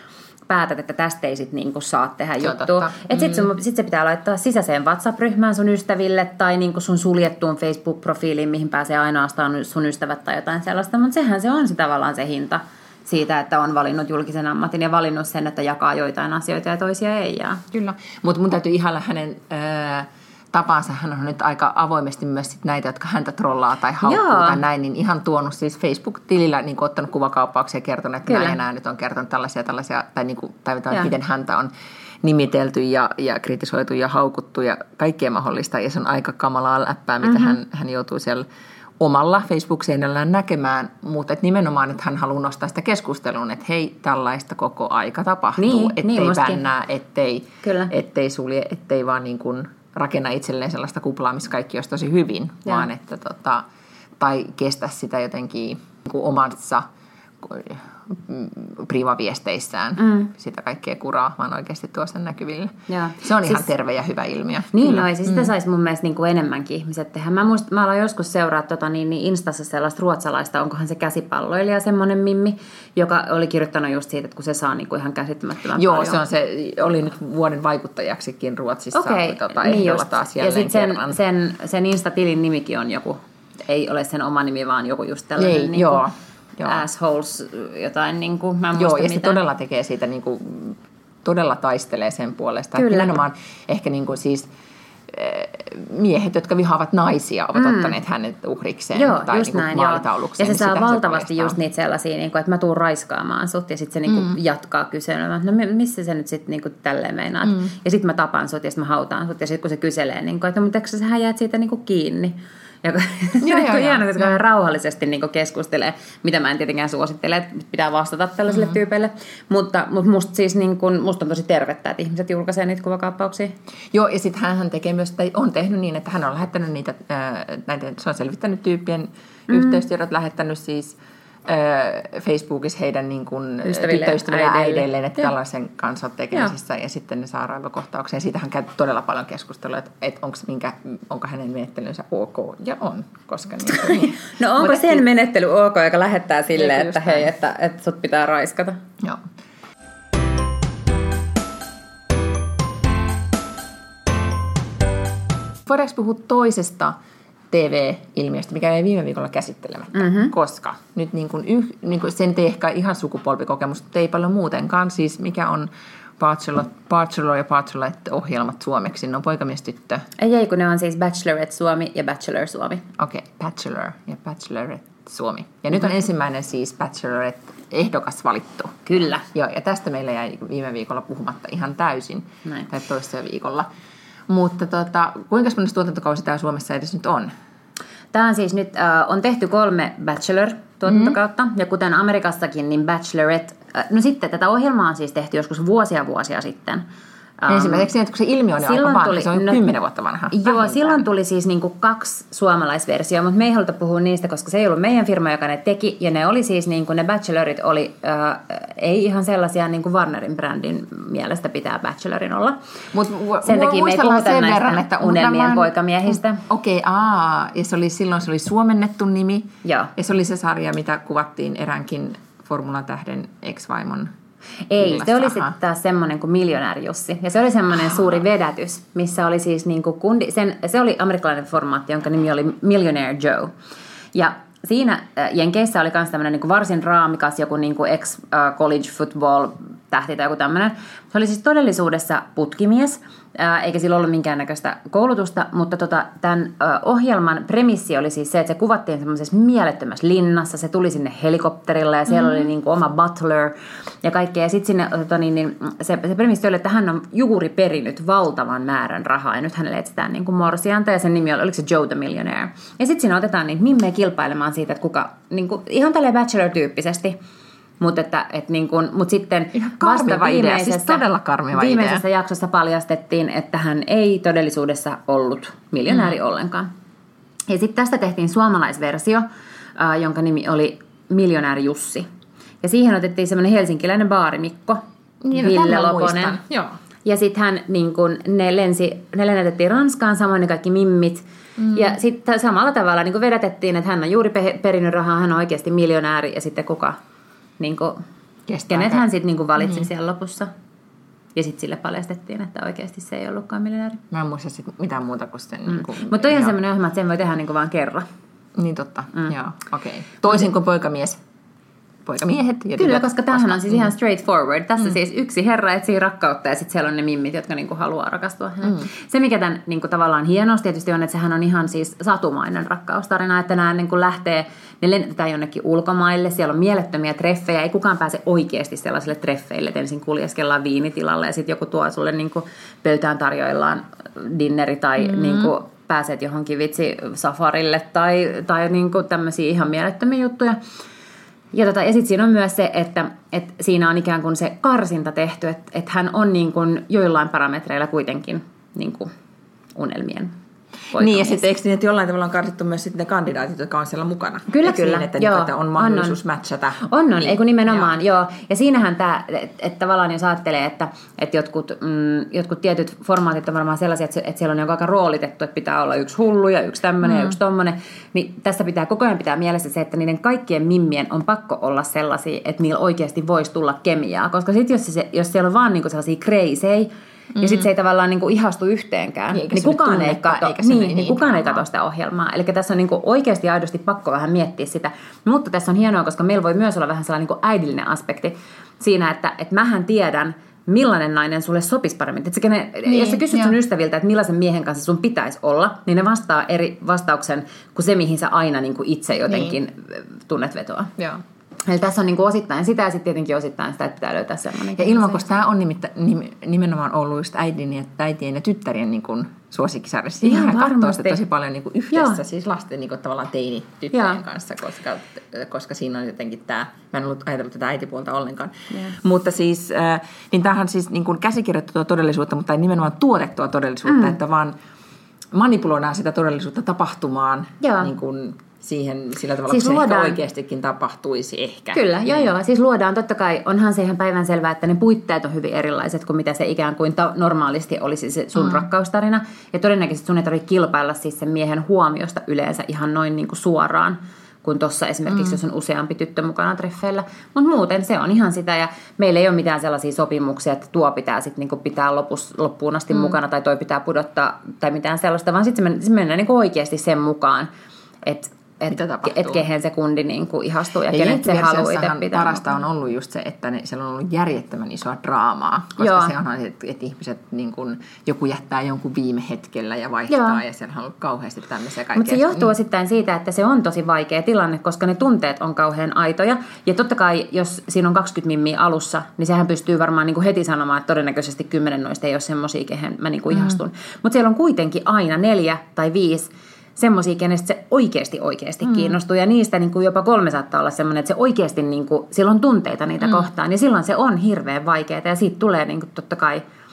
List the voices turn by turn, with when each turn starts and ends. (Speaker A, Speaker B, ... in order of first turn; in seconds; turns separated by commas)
Speaker A: 0.5-17.6, Speaker B: 2.4-3.5, Speaker B: 17.7-31.7, Speaker A: 24.0-24.6, Speaker A: 28.3-28.6, Speaker B: 32.2-38.4, Speaker A: 37.2-37.5, Speaker B: 39.0-53.6, Speaker A: 45.6-46.6, Speaker A: 47.6-47.9, Speaker B: 54.2-56.9, Speaker B: 57.4-65.5, Speaker A: 60.0-60.3, Speaker A: 62.9-63.7, Speaker A: 64.7-76.2, Speaker B: 75.8-81.2, Speaker A: 78.9-86.0, Speaker B: 85.4-86.8, Speaker A: 86.6-89.4, Speaker B: 88.8-94.5, Speaker A: 92.8-93.2, Speaker B: 95.1-101.6, Speaker A: 97.5-97.9, Speaker A: 98.9-123.5, Speaker B: 104.1-104.4, Speaker B: 107.5-107.7, Speaker B: 113.4-114.4, Speaker B: 123.9-145.0, Speaker A: 129.5-129.8, Speaker A: 133.6-134.9, Speaker A: 143.6-148.8, Speaker B: 146.5-147.3, Speaker B: 155.7-156.9, Speaker B: 157.5-170.1, Speaker A: 159.9-160.3, Speaker A: 170.2-172.8, Speaker B: 173.0-183.7, Speaker A: 178.9-179.2, Speaker B: 184.3-187.3, Speaker A: 188.1-196.8, Speaker B: 190.9-191.2, Speaker A: 197.4-197.9, Speaker B: 197.5-201.0, Speaker A: 198.6-199.6, Speaker A: 200.3-212.6, Speaker B: 212.9-224.1, Speaker A: 213.4-216.4, Speaker A: 219.6-219.9, Speaker A: 224.7-233.5, Speaker B: 224.8-225.5, Speaker A: 234.1-267.1, Speaker B: 252.1-252.5, Speaker A: 267.8-276.7, Speaker B: 269.5-272.0, Speaker A: 277.5-279.2, Speaker A: 279.8-282.1, Speaker A: 282.6-286.4, Speaker B: 285.2-286.8, Speaker A: 287.0-297.0, Speaker B: 291.6-291.9, Speaker A: 297.6-298.0, Speaker B: 298.5-299.1, Speaker A: 298.7-300.5, Speaker B: 299.6-299.9, Speaker A: 301.4-304.0, Speaker B: 304.1-306.6, Speaker A: 305.7-308.1, Speaker B: 308.5-311.2, Speaker B: 312.1-313.9, Speaker A: 312.8-340.6, Speaker B: 318.6-318.9, Speaker B: 335.0-335.5, Speaker A: 341.5-349.1, Speaker A: 349.8-350.3, Speaker A: 350.9-351.4, Speaker B: 350.9-357.9, Speaker A: 354.5-356.2, Speaker A: 356.9-400.9, Speaker B: 377.4-377.7, Speaker B: 379.3-381.6, Speaker B: 392.9-393.6, Speaker B: 399.3-399.6, Speaker A: 401.6-405.2, Speaker B: 404.8-424.6, Speaker A: 410.2-411.2, Speaker A: 411.9-412.2, Speaker A: 413.9-414.2, Speaker A: 423.9-424.2, Speaker B: 425.3-432.3, Speaker A: 427.6-427.9, Speaker A: 429.5-430.2, Speaker A: 431.7-457.5, Speaker B: 445.1-445.4, Speaker A: 458.0-462.4, Speaker B: 458.7-459.4, Speaker B: 460.9-472.5, Speaker A: 465.8-466.1, Speaker A: 470.1-470.4, Speaker A: 471.9-496.4